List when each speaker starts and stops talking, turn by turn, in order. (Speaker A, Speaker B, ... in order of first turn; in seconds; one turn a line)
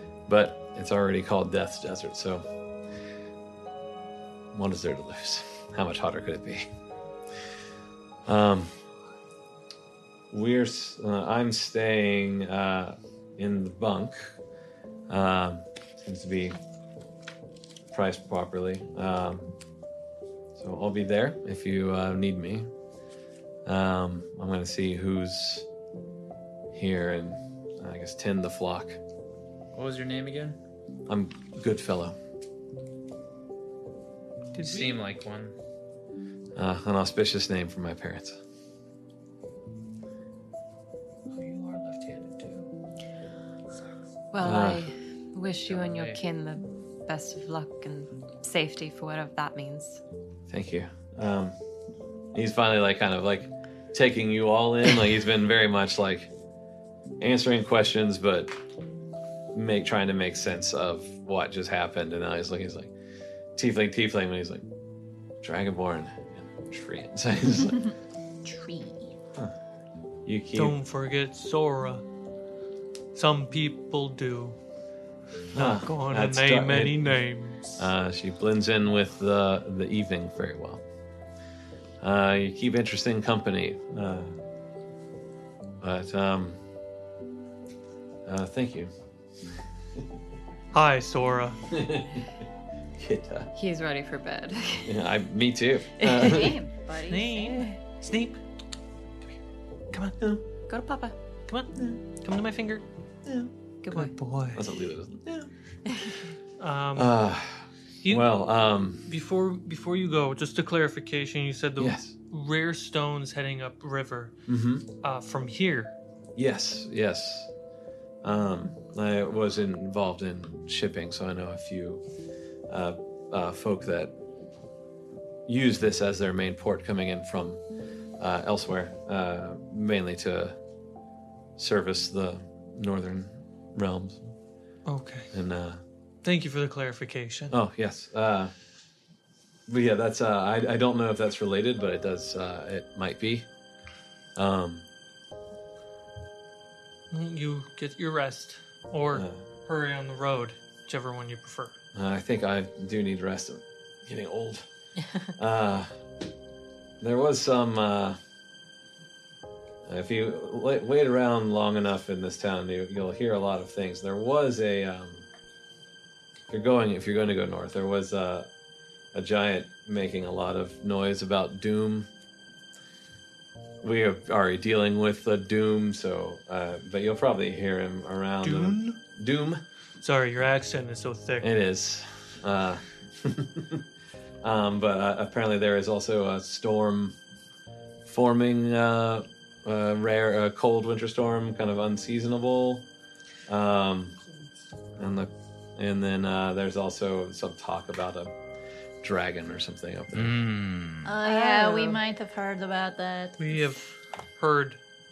Speaker A: 0.3-2.4
Speaker A: 4.5-6.7
Speaker A: 8.3-8.7
Speaker A: 10.3-14.3
Speaker A: 15.1-16.6
Speaker A: 17.9-19.5
Speaker A: 20.6-22.7
Speaker A: 23.7-25.7
Speaker A: 26.7-29.0
Speaker B: 29.7-30.6
Speaker A: 31.1-32.2
Speaker C: 34.5-35.0
Speaker B: 34.5-35.6
Speaker A: 36.6-38.4
Speaker C: 41.3-42.7
Speaker D: 44.3-50.0
Speaker A: 44.4-44.9
Speaker B: 45.6-46.2
Speaker A: 50.5-51.6
Speaker A: 52.3-56.3
Speaker A: 57.2-58.5
Speaker A: 59.5-62.9
Speaker A: 63.6-64.6
Speaker A: 65.4-67.8
Speaker E: 68.4-69.1
Speaker A: 70.2-70.8
Speaker C: 70.5-72.0
Speaker C: 73.1-74.6
Speaker A: 75.5-77.1
Speaker C: 75.5-77.8
Speaker A: 77.8-80.8
Speaker A: 82.0-84.3
Speaker A: 85.8-86.6
Speaker A: 88.3-88.9
Speaker C: 90.7-91.6
Speaker A: 91.7-92.3
Speaker A: 93.0-93.5
Speaker D: 93.6-95.0
Speaker A: 94.8-96.6
Speaker D: 96.0-96.5
Speaker E: 96.2-97.5
Speaker C: 97.1-98.4
Speaker D: 97.5-97.8
Speaker C: 99.9-100.4
Speaker D: 100.7-101.2
Speaker C: 101.5-102.8
Speaker D: 103.8-104.1
Speaker C: 103.9-104.7
Speaker A: 104.5-105.5
Speaker C: 106.6-107.1
Speaker A: 107.0-109.1
Speaker C: 109.1-114.3
Speaker A: 111.8-112.1
Speaker A: 114.5-114.9
Speaker C: 115.0-116.0
Speaker A: 116.4-117.5
Speaker A: 118.2-122.0
Speaker A: 122.7-124.1
Speaker A: 125.5-127.6
Speaker A: 128.2-130.6
Speaker A: 131.6-134.3
Speaker C: 134.9-135.3
Speaker A: 135.3-135.8
Speaker C: 136.2-137.5
Speaker A: 137.5-138.5
Speaker A: 139.7-143.5
Speaker A: 144.4-144.9
Speaker C: 147.1-151.8
Speaker A: 149.1-149.4
Speaker A: 151.9-154.7
Speaker A: 155.4-155.9
Speaker A: 157.0-158.2
Speaker A: 159.9-165.3
Speaker A: 166.5-168.5
Speaker A: 169.1-172.1
Speaker A: 173.8-179.6
Speaker C: 178.4-179.0
Speaker C: 180.0-181.5
Speaker A: 181.4-183.8
Speaker A: 184.4-187.2
Speaker A: 188.1-192.8
Speaker A: 193.5-194.2
Speaker A: 195.0-198.3
Speaker A: 199.0-200.4
Speaker B: 200.1-201.1
Speaker E: 201.1-203.7
Speaker D: 201.2-202.0
Speaker C: 203.4-204.8